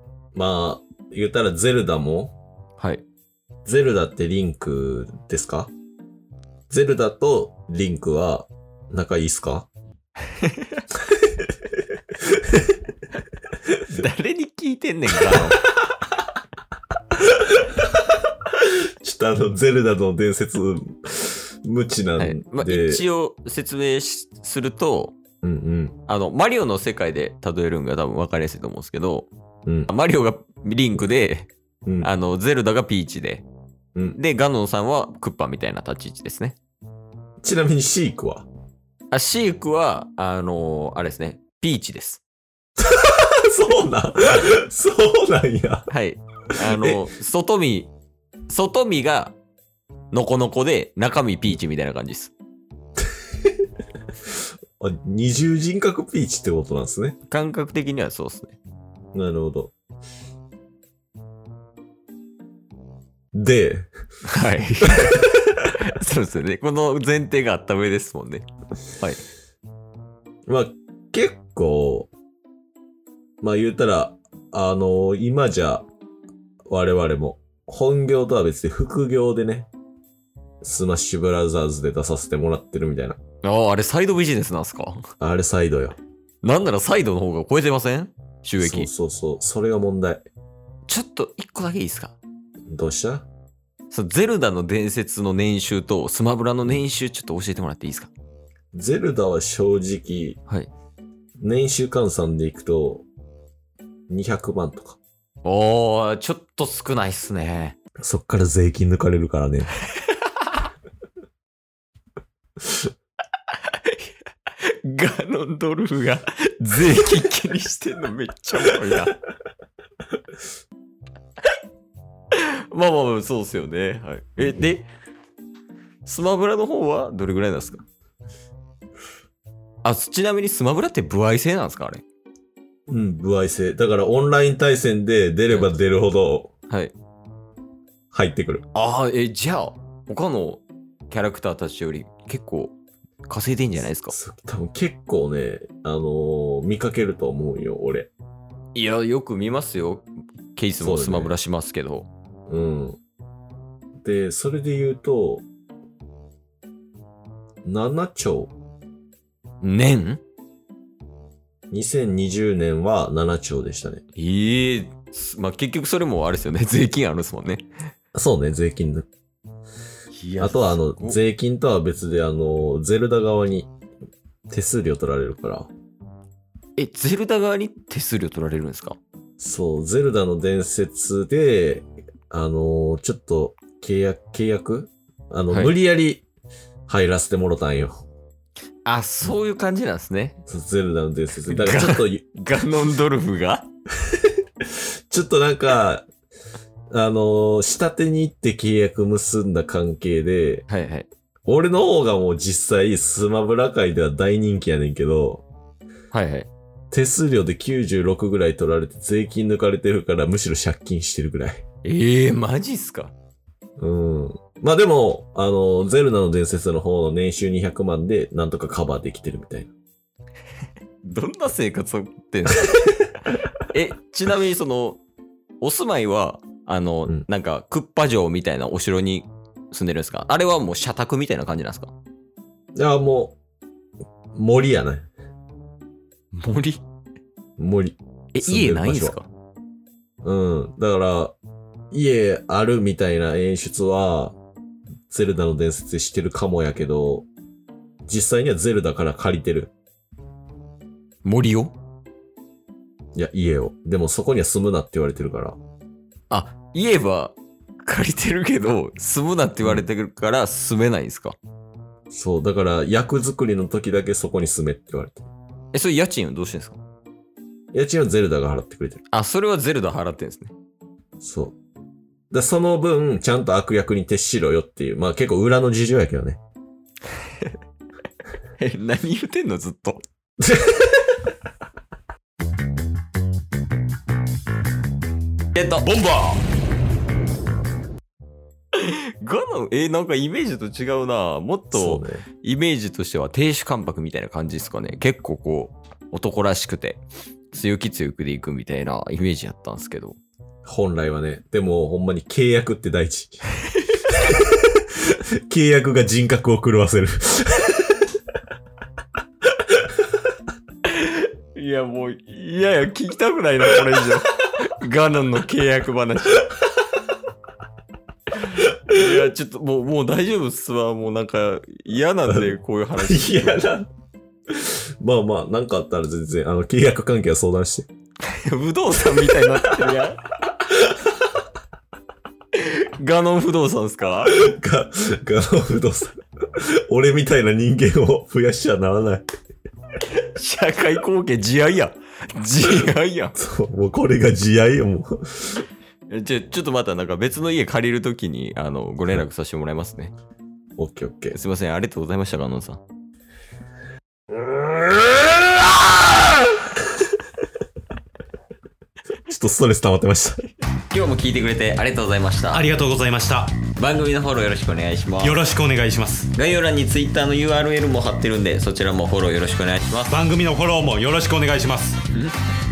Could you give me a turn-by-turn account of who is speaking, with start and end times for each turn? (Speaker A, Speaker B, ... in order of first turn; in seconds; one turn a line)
Speaker A: 0.3-2.4
Speaker B: 2.8-3.0
Speaker A: 3.6-5.7
Speaker A: 6.7-9.7
Speaker B: 10.3-10.8
Speaker A: 11.0-11.5
Speaker A: 12.1-12.8
Speaker B: 13.9-15.7
Speaker A: 17.1-23.0
Speaker B: 22.2-25.2
Speaker A: 25.4-25.9
Speaker B: 26.1-29.3
Speaker A: 29.6-29.9
Speaker B: 29.9-31.5
Speaker B: 32.0-33.4
Speaker B: 34.1-36.6
Speaker A: 37.4-38.5
Speaker B: 39.1-42.2
Speaker A: 42.8-45.9
Speaker B: 45.9-47.9
Speaker A: 46.6-47.0
Speaker B: 48.5-49.3
Speaker B: 50.1-52.3
Speaker A: 53.1-53.5
Speaker A: 54.8-57.2
Speaker B: 57.3-58.6
Speaker A: 59.1-59.7
Speaker A: 63.3-63.9
Speaker B: 64.2-68.5
Speaker A: 64.9-65.3
Speaker B: 69.0-69.2
Speaker A: 70.5-72.1
Speaker A: 73.4-75.8
Speaker A: 76.7-79.7
Speaker A: 80.6-83.2
Speaker B: 83.4-85.0
Speaker A: 85.2-86.0
Speaker B: 86.4-88.9
Speaker A: 88.6-90.2
Speaker B: 90.9-92.2
Speaker A: 92.7-93.2
Speaker B: 93.9-98.1
Speaker A: 98.7-100.4
Speaker A: 101.4-103.0
Speaker A: 104.1-105.0
Speaker B: 105.4-107.8
Speaker A: 108.0-109.7
Speaker B: 113.5-119.2
Speaker A: 118.6-119.0
Speaker B: 122.3-124.9
Speaker B: 126.0-127.8
Speaker B: 129.8-132.0
Speaker A: 132.9-136.5
Speaker B: 136.7-136.9
Speaker A: 138.1-138.6
Speaker B: 138.7-142.7
Speaker B: 143.3-144.2
Speaker A: 144.1-148.1
Speaker B: 148.7-152.1
Speaker A: 150.8-151.3
Speaker A: 152.5-153.0
Speaker A: 154.0-155.4
Speaker A: 157.6-158.5
Speaker B: 159.6-160.2
Speaker A: 161.7-164.0
Speaker B: 164.2-167.7
Speaker A: 168.1-169.1
Speaker B: 170.1-171.2
Speaker A: 170.4-173.7
Speaker A: 174.5-175.7
Speaker B: 176.8-179.0
Speaker A: 179.4-186.2
Speaker A: 186.9-188.0
Speaker B: 188.8-190.4
Speaker A: 190.5-192.2
Speaker B: 191.5-193.7
Speaker A: 194.1-196.1
Speaker A: 196.9-200.7
Speaker B: 200.7-201.1
Speaker A: 201.4-205.4
Speaker B: 206.1-206.5
Speaker A: 206.9-211.6
Speaker B: 211.8-213.1
Speaker A: 213.8-219.7
Speaker B: 221.0-225.0
Speaker B: 225.6-231.9
Speaker A: 232.7-233.4
Speaker A: 234.3-235.1
Speaker B: 236.3-236.8
Speaker A: 237.6-239.2
Speaker B: 238.3-239.3
Speaker A: 240.2-241.3
Speaker A: 241.9-244.3
Speaker A: 245.1-247.3
Speaker A: 248.1-249.7
Speaker B: 251.2-251.7
Speaker A: 253.1-255.6
Speaker B: 256.3-261.4
Speaker A: 262.1-265.3
Speaker B: 265.7-266.8
Speaker A: 267.7-269.0
Speaker B: 269.1-270.5
Speaker A: 271.2-271.5
Speaker A: 272.3-276.4
Speaker B: 278.6-280.0
Speaker A: 280.4-281.0
Speaker B: 285.5-286.1
Speaker C: 285.9-286.4
Speaker B: 288.7-300.2
Speaker A: 291.7-292.2
Speaker A: 300.6-303.4
Speaker A: 304.1-308.1
Speaker B: 310.8-316.5
Speaker B: 318.4-323.6
Speaker A: 322.3-323.9
Speaker A: 324.5-327.9
Speaker B: 328.3-330.2
Speaker A: 329.2-329.9
Speaker A: 330.8-331.1
Speaker B: 332.5-334.4
Speaker A: 334.3-339.2
Speaker B: 340.2-343.3
Speaker A: 343.4-345.6
Speaker B: 346.1-350.1
Speaker A: 350.8-351.4
Speaker B: 351.3-352.8
Speaker A: 354.3-355.7
Speaker A: 359.2-360.4
Speaker B: 360.9-362.7
Speaker C: 362.5-363.6
Speaker B: 363.7-365.4
Speaker C: 365.2-366.3
Speaker B: 366.3-370.2
Speaker C: 370.1-372.0
Speaker B: 372.1-372.3